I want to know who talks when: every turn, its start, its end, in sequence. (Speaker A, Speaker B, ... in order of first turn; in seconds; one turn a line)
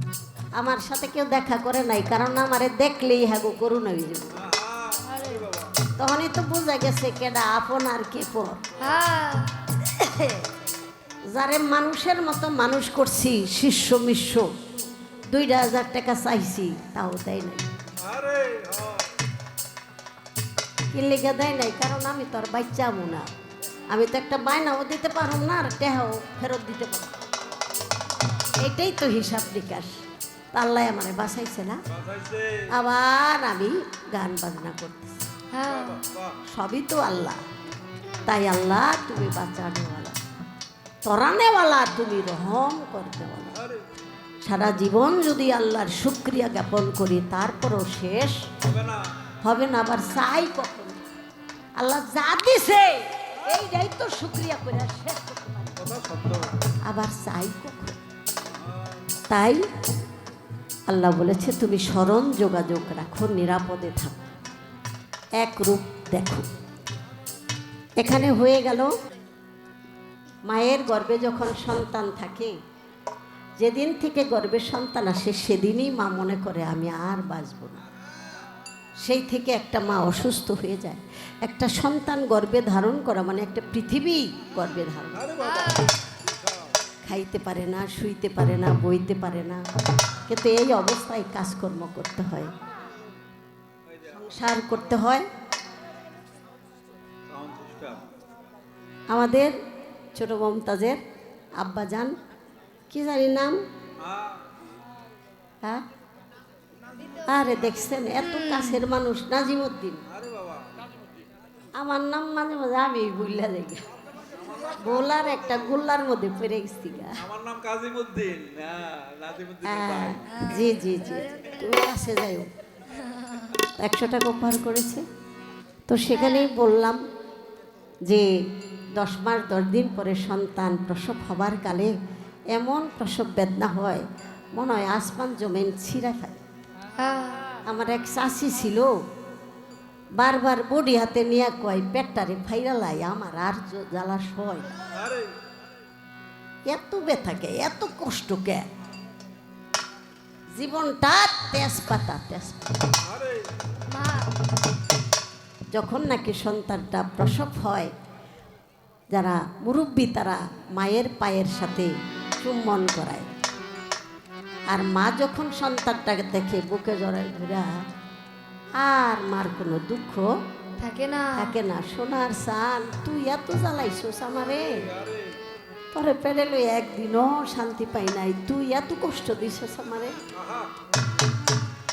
Speaker A: 0.6-4.4
Speaker B: 4.4-5.7
Speaker A: 6.0-8.6
Speaker C: 8.8-9.5
Speaker A: 9.8-10.4
Speaker A: 11.3-14.5
Speaker A: 15.3-17.7
Speaker B: 18.0-19.1
Speaker A: 20.9-23.3
Speaker A: 23.9-27.2
Speaker A: 28.6-30.0
Speaker A: 30.5-31.8
Speaker B: 31.9-32.7
Speaker A: 32.7-35.3
Speaker C: 35.5-36.0
Speaker B: 35.9-36.3
Speaker A: 36.5-37.4
Speaker A: 38.2-40.2
Speaker A: 41.0-43.6
Speaker A: 44.4-48.5
Speaker B: 48.7-49.0
Speaker A: 49.4-51.0
Speaker A: 51.8-55.8
Speaker B: 55.8-56.5
Speaker A: 56.9-58.0
Speaker B: 58.6-59.0
Speaker A: 59.3-59.6
Speaker A: 60.9-64.2
Speaker A: 65.4-66.5
Speaker A: 68.0-68.9
Speaker A: 70.5-72.5
Speaker A: 73.6-77.8
Speaker A: 79.0-85.3
Speaker B: 85.3-85.9
Speaker C: 85.4-85.9
Speaker A: 87.0-89.6
Speaker A: 90.3-92.5
Speaker B: 93.9-94.2
Speaker A: 94.1-95.2
Speaker B: 97.3-98.1
Speaker A: 99.1-99.5
Speaker A: 100.1-101.0
Speaker A: 101.6-102.1
Speaker A: 102.9-103.6
Speaker B: 104.0-104.4
Speaker A: 107.2-110.0
Speaker B: 110.2-110.7
Speaker A: 111.8-113.8
Speaker B: 114.3-114.8
Speaker A: 114.8-117.2
Speaker B: 117.2-120.2
Speaker A: 119.6-122.5
Speaker C: 121.1-121.5
Speaker A: 123.8-125.0
Speaker A: 125.9-127.0
Speaker A: 128.9-131.9
Speaker A: 132.5-136.4
Speaker C: 137.0-137.5
Speaker A: 137.7-138.9
Speaker A: 140.1-144.7
Speaker B: 144.9-145.3
Speaker A: 146.7-148.7
Speaker A: 150.5-152.7
Speaker B: 153.0-153.5
Speaker C: 153.9-154.3
Speaker A: 155.7-157.9
Speaker A: 159.1-163.3
Speaker A: 164.7-167.7
Speaker A: 168.8-170.3
Speaker C: 170.8-171.5
Speaker A: 171.3-174.9
Speaker B: 174.9-175.3
Speaker A: 175.9-180.2
Speaker B: 180.4-180.7